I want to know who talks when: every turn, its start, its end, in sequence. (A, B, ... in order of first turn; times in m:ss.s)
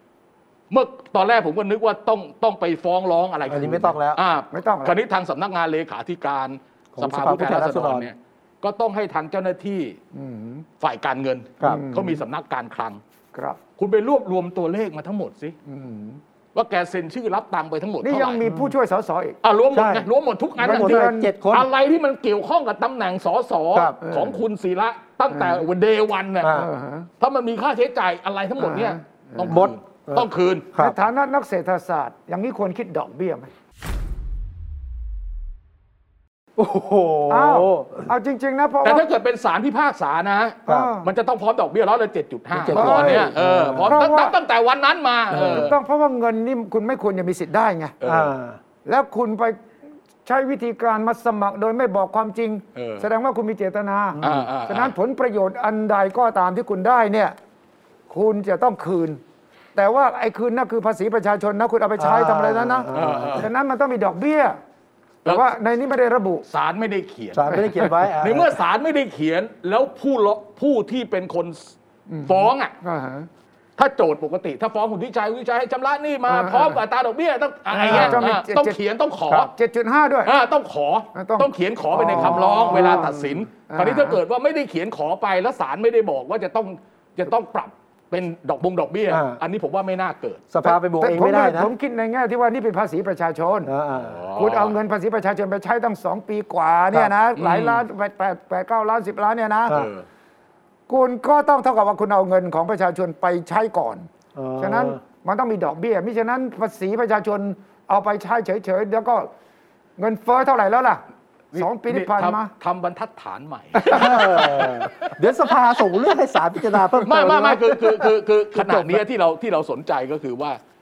0:00.7-0:10.0 A
0:03.5-0:04.2 B
0:04.5-0:05.0 C
0:07.0-0:08.1 B
0:10.1-0:10.7 C
0:10.8-0:13.0 A
0:11.6-0:12.2 C
0:13.3-0:13.6 C
0:13.8-0:15.6 A
0:15.7-0:16.2 C
0:16.6-0:18.4 A
0:18.0-0:19.4 C
0:18.5-0:18.7 B
0:19.4-0:26.6 A
0:19.7-0:20.1 B
0:20.6-0:21.3 C
0:20.6-0:21.7 B
0:24.0-0:24.4 C
0:25.3-0:25.6 C
0:26.4-0:26.7 B
0:26.5-0:27.1 C
0:27.2-0:30.7 A
0:28.6-0:29.6 C
0:29.5-0:31.0 B
0:30.8-0:33.5 C
0:36.6-0:38.1 B
0:37.3-0:39.1 C
0:38.8-0:45.8 A
0:40.7-0:41.1 C
0:42.5-0:44.0 B
0:42.7-0:44.4 C
0:45.3-0:45.7 B
0:45.4-0:48.0 C
0:48.0-0:48.3 A
0:48.0-0:48.6 B
0:48.8-0:49.6 C
0:50.2-0:57.4 C
0:52.8-0:53.1 A
0:54.2-0:54.5 B
0:54.2-0:55.0 A
0:58.1-0:59.2 C
0:59.8-1:04.6 C
1:02.0-1:03.5 B
1:02.9-1:03.5 A
1:05.2-1:06.5 C
1:06.5-1:11.8 A
1:07.3-1:08.6 B
1:12.1-1:13.3 C
1:12.3-1:12.7 A
1:13.8-1:19.5 A
1:16.3-1:16.8 C
1:17.7-1:18.8 C
1:19.3-1:20.3 C
1:20.2-1:30.4 A
1:21.2-1:24.2 C
1:22.0-1:23.1 B
1:29.1-1:29.4 B
1:30.5-1:31.7 B
1:30.6-1:33.7 C
1:33.7-1:34.2 B
1:33.9-1:34.8 A
1:34.4-1:39.8 C
1:37.4-1:37.8 A
1:39.7-1:40.0 A
1:40.9-1:49.3 C
1:44.4-1:45.0 B
1:50.0-1:51.0 C
1:51.5-1:55.0 A
1:51.5-1:52.5 C
1:53.8-1:54.8 C
1:53.9-1:57.9 B
1:57.0-2:00.6 A